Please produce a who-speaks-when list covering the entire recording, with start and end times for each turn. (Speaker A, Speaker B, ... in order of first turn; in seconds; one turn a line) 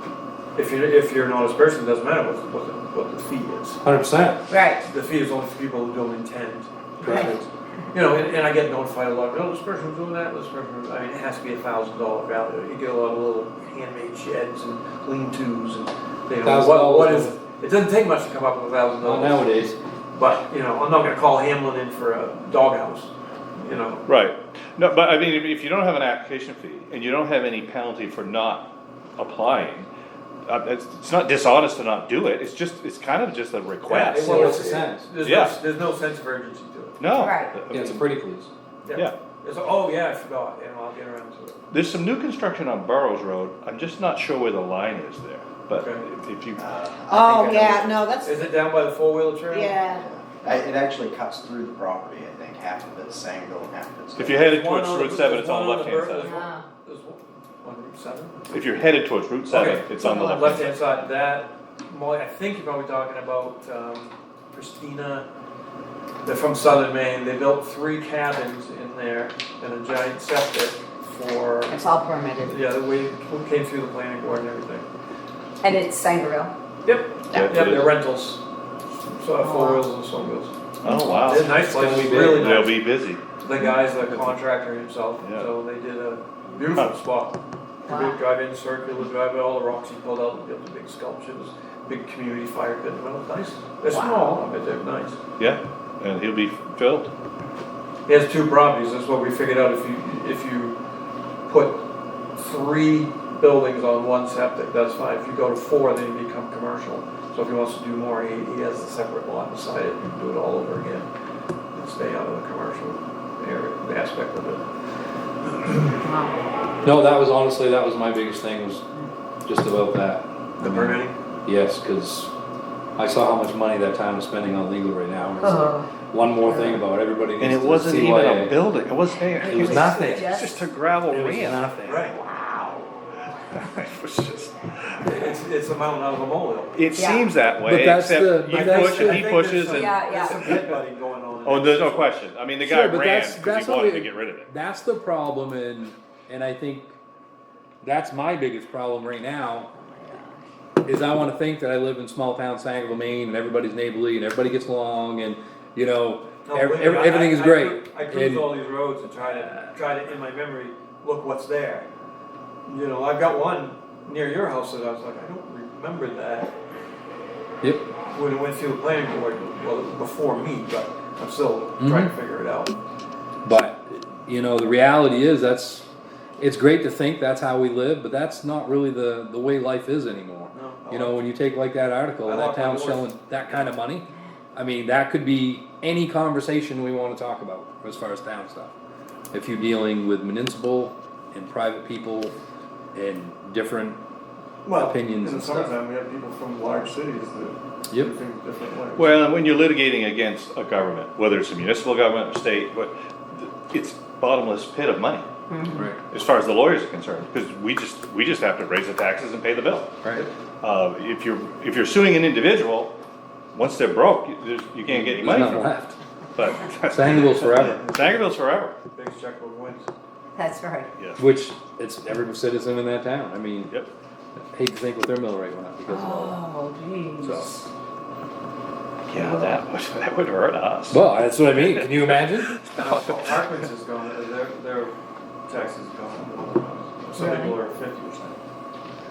Speaker A: 0.6-3.8
Speaker B: 3.8-4.4
Speaker C: 4.5-4.8
Speaker A: 4.8-19.5
Speaker B: 7.0-7.5
Speaker B: 16.4-17.3
Speaker B: 19.0-19.8
Speaker A: 20.1-24.1
Speaker D: 24.1-29.9
Speaker D: 30.5-34.6
Speaker A: 33.9-37.1
Speaker B: 34.2-35.1
Speaker D: 35.2-35.6
Speaker D: 37.0-38.1
Speaker C: 37.1-37.5
Speaker B: 37.7-38.5
Speaker A: 38.9-41.6
Speaker D: 41.7-46.6
Speaker A: 45.7-46.0
Speaker E: 46.6-48.1
Speaker C: 47.1-48.6
Speaker A: 48.2-49.8
Speaker C: 49.5-50.1
Speaker E: 49.9-54.4
Speaker D: 54.2-56.4
Speaker A: 54.4-58.5
Speaker C: 56.2-56.6
Speaker D: 58.5-60.8
Speaker A: 59.5-65.3
Speaker A: 66.2-71.8
Speaker C: 71.7-72.6
Speaker A: 72.4-74.9
Speaker C: 75.6-76.5
Speaker A: 76.8-78.4
Speaker D: 77.3-78.0
Speaker A: 79.1-80.5
Speaker C: 79.4-79.9
Speaker D: 80.8-83.2
Speaker B: 80.8-82.6
Speaker A: 81.2-82.8
Speaker A: 83.4-95.2
Speaker D: 85.2-85.5
Speaker C: 87.9-88.2
Speaker C: 93.9-94.4
Speaker D: 95.4-97.1
Speaker A: 98.1-100.8
Speaker A: 101.5-111.1
Speaker A: 111.7-114.7
Speaker A: 115.5-116.0
Speaker C: 116.0-116.5
Speaker B: 116.8-118.8
Speaker B: 119.5-122.3
Speaker A: 120.6-121.2
Speaker B: 123.0-128.6
Speaker C: 125.4-125.9
Speaker C: 126.5-126.8
Speaker D: 127.4-131.6
Speaker C: 129.2-130.7
Speaker B: 129.6-130.3
Speaker B: 131.1-132.1
Speaker A: 131.8-132.2
Speaker C: 132.2-132.8
Speaker D: 133.5-135.0
Speaker A: 135.0-137.0
Speaker D: 136.8-140.7
Speaker C: 136.9-137.3
Speaker B: 137.7-139.3
Speaker A: 138.5-142.2
Speaker C: 139.7-140.4
Speaker D: 141.4-144.5
Speaker B: 142.6-146.9
Speaker B: 147.8-149.7
Speaker B: 150.8-158.5
Speaker A: 156.4-161.9
Speaker A: 162.7-166.5
Speaker A: 168.1-172.8
Speaker B: 171.8-172.1
Speaker B: 173.4-175.9
Speaker B: 176.4-188.7
Speaker A: 180.5-181.2
Speaker A: 182.2-183.8
Speaker B: 189.3-192.3
Speaker B: 192.9-194.0
Speaker A: 194.7-199.1
Speaker B: 194.7-195.7
Speaker D: 199.0-205.3
Speaker C: 205.5-205.9
Speaker B: 205.7-206.0
Speaker D: 206.1-209.9
Speaker B: 210.0-210.3
Speaker D: 210.6-212.9
Speaker D: 213.5-215.8
Speaker B: 214.9-216.0
Speaker D: 216.3-218.8
Speaker B: 216.9-217.9
Speaker A: 217.5-218.3
Speaker A: 218.9-219.9
Speaker C: 220.4-220.9
Speaker B: 221.2-223.8
Speaker B: 224.4-226.4
Speaker C: 225.9-227.4
Speaker B: 227.2-227.5
Speaker D: 229.1-233.4
Speaker C: 229.2-229.5
Speaker B: 230.9-232.6
Speaker A: 232.8-235.0
Speaker A: 235.5-238.3
Speaker C: 237.2-237.6